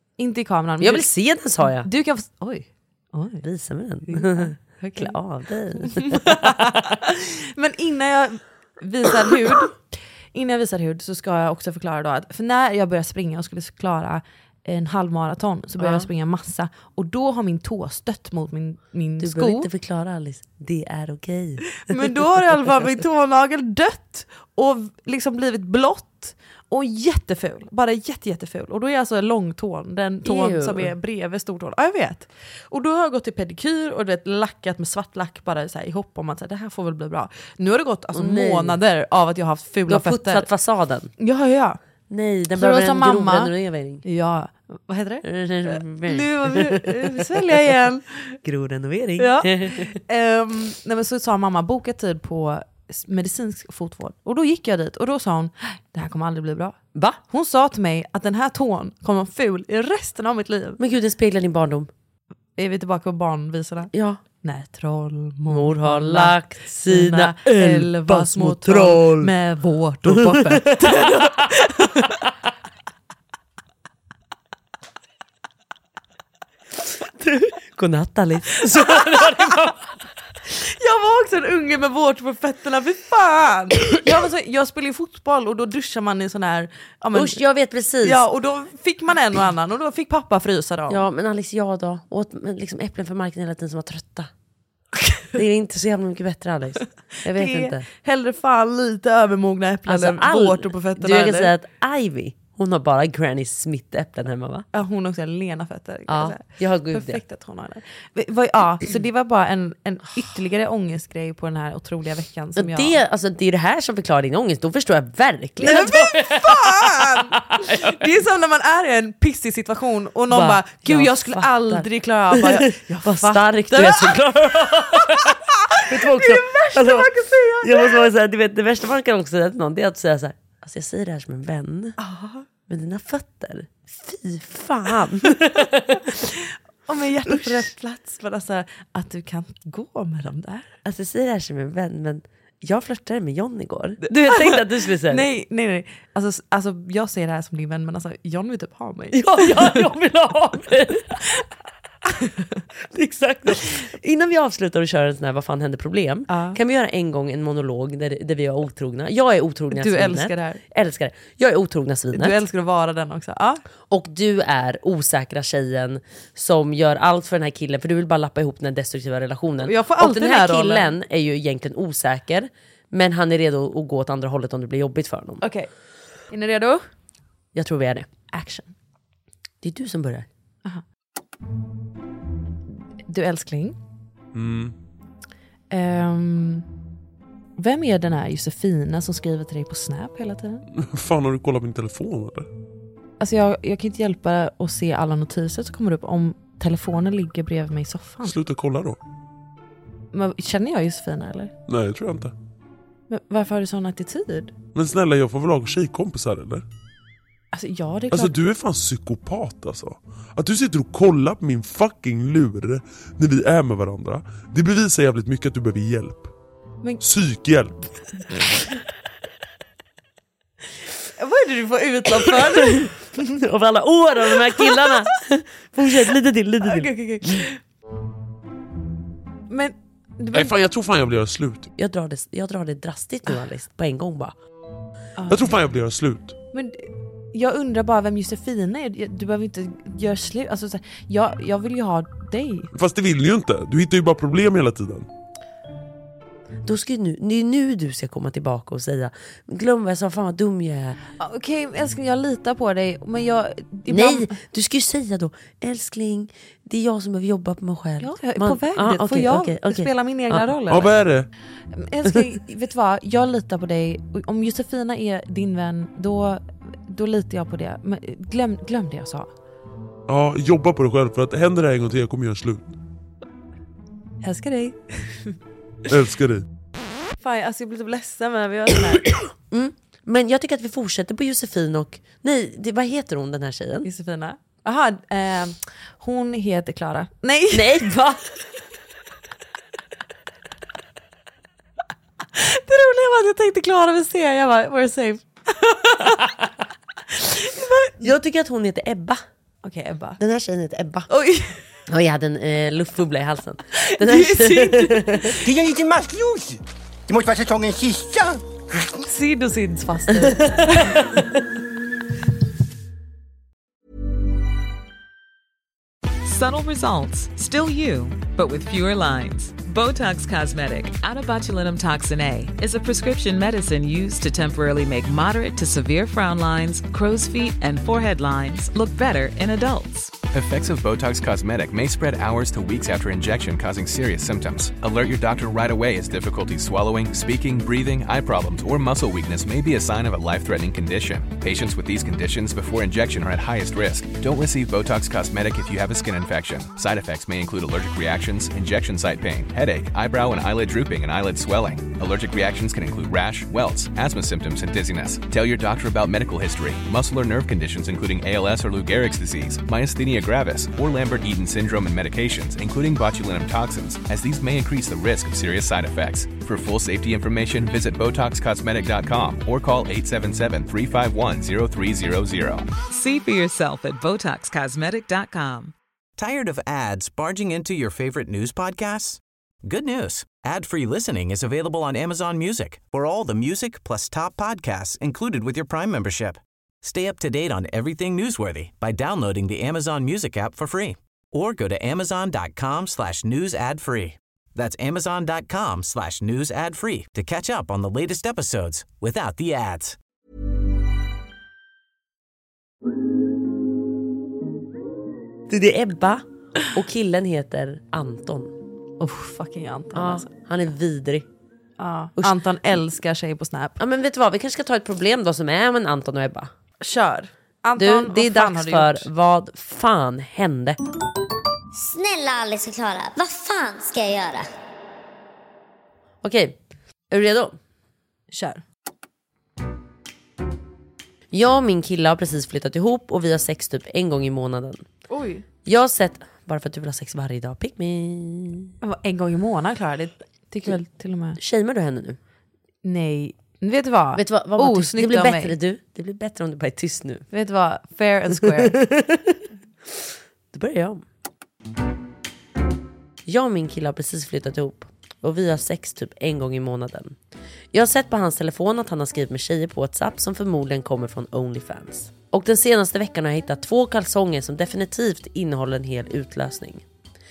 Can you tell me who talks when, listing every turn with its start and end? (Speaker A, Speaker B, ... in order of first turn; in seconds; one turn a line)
Speaker A: 0.2-1.1
Speaker B: 0.8-1.9
Speaker A: 1.6-3.4
Speaker B: 3.4-6.8
Speaker A: 4.1-5.2
Speaker A: 5.8-19.7
Speaker B: 15.8-16.1
Speaker B: 19.2-22.0
Speaker A: 21.8-40.5
Speaker B: 30.2-30.9
Speaker B: 38.1-38.8
Speaker B: 39.9-41.1
Speaker A: 41.2-41.8
Speaker B: 42.1-44.0
Speaker A: 42.5-43.5
Speaker A: 44.0-48.3
Speaker B: 45.2-47.4
Speaker B: 48.4-50.0
Speaker A: 49.2-56.8
Speaker B: 56.9-57.2
Speaker A: 57.3-60.8
Speaker B: 60.8-61.9
Speaker A: 62.6-72.2
Speaker B: 63.9-64.2
Speaker B: 65.5-69.3
Speaker B: 70.1-71.5
Speaker B: 77.0-79.9
Speaker A: 78.9-79.5
Speaker A: 80.5-87.4
Speaker B: 87.1-88.2
Speaker A: 88.0-91.0
Speaker B: 90.9-94.3
Speaker B: 95.3-97.9
Speaker A: 97.3-101.5
Speaker B: 99.9-104.7
Speaker A: 104.7-112.9
Speaker B: 106.1-107.2
Speaker B: 112.6-117.8
Speaker A: 115.6-128.1
Speaker B: 120.3-127.1
Speaker B: 127.6-132.0
Speaker A: 132.0-132.4
Speaker B: 132.7-136.2
Speaker A: 136.9-140.7
Speaker B: 137.3-137.7
Speaker B: 140.8-145.2
Speaker A: 144.0-149.8
Speaker B: 149.1-151.3
Speaker B: 152.9-162.4
Speaker A: 156.3-156.6
Speaker A: 159.7-160.6
Speaker A: 162.1-163.6
Speaker B: 163.9-175.4
Speaker A: 169.6-170.9
Speaker A: 175.4-175.7
Speaker A: 176.3-176.8
Speaker B: 177.5-178.6
Speaker B: 179.6-180.3
Speaker A: 183.1-183.8
Speaker C: 184.3-184.7
Speaker A: 185.7-186.6
Speaker A: 187.6-190.6
Speaker C: 190.8-192.5
Speaker A: 193.2-198.3
Speaker C: 198.2-199.0
Speaker A: 200.1-201.5
Speaker C: 201.7-202.3
Speaker A: 203.1-204.5
Speaker C: 204.7-206.6
Speaker A: 207.5-208.5
Speaker C: 208.1-216.3
Speaker C: 217.0-217.7
Speaker A: 221.2-223.1
Speaker B: 222.6-227.4
Speaker A: 224.3-224.9
Speaker A: 226.6-227.6
Speaker A: 229.5-230.5
Speaker C: 230.3-231.7
Speaker B: 231.8-234.3
Speaker A: 235.2-235.5
Speaker C: 235.3-236.3
Speaker A: 236.5-242.7
Speaker C: 242.7-245.1
Speaker B: 246.6-251.0
Speaker A: 251.2-254.3
Speaker B: 253.9-260.5
Speaker A: 258.0-260.9
Speaker C: 260.7-261.3
Speaker A: 261.7-269.3
Speaker C: 270.1-272.7
Speaker A: 274.2-275.3
Speaker C: 275.9-276.4
Speaker A: 277.2-279.1
Speaker B: 279.5-283.9
Speaker A: 283.8-287.9
Speaker B: 287.5-288.3
Speaker A: 292.3-296.3
Speaker A: 297.1-298.1
Speaker B: 298.0-299.2
Speaker A: 299.6-300.2
Speaker B: 300.2-301.1
Speaker A: 301.1-301.6
Speaker B: 301.9-305.4
Speaker A: 303.8-305.4
Speaker D: 305.4-308.4
Speaker A: 309.1-311.1
Speaker E: 316.2-330.2
Speaker F: 330.3-372.7
Speaker E: 372.9-375.7
Speaker G: 376.2-400.0
Speaker B: 405.5-408.5
Speaker A: 409.0-410.3
Speaker B: 409.9-411.2
Speaker A: 411.8-413.8
Speaker B: 413.8-416.5
Speaker A: 416.8-419.1
Speaker B: 417.8-420.8
Speaker H: 421.7-424.5
Speaker B: 426.2-426.6
Speaker B: 427.1-427.6
Speaker A: 428.3-428.6
Speaker B: 431.3-434.9
Speaker A: 435.1-435.4
Speaker B: 435.6-438.7
Speaker A: 438.8-441.4
Speaker B: 441.4-442.2
Speaker A: 442.8-445.5
Speaker B: 444.1-447.3
Speaker A: 447.3-448.8
Speaker B: 448.6-449.4
Speaker B: 450.5-451.0
Speaker B: 453.2-457.1
Speaker B: 457.7-466.8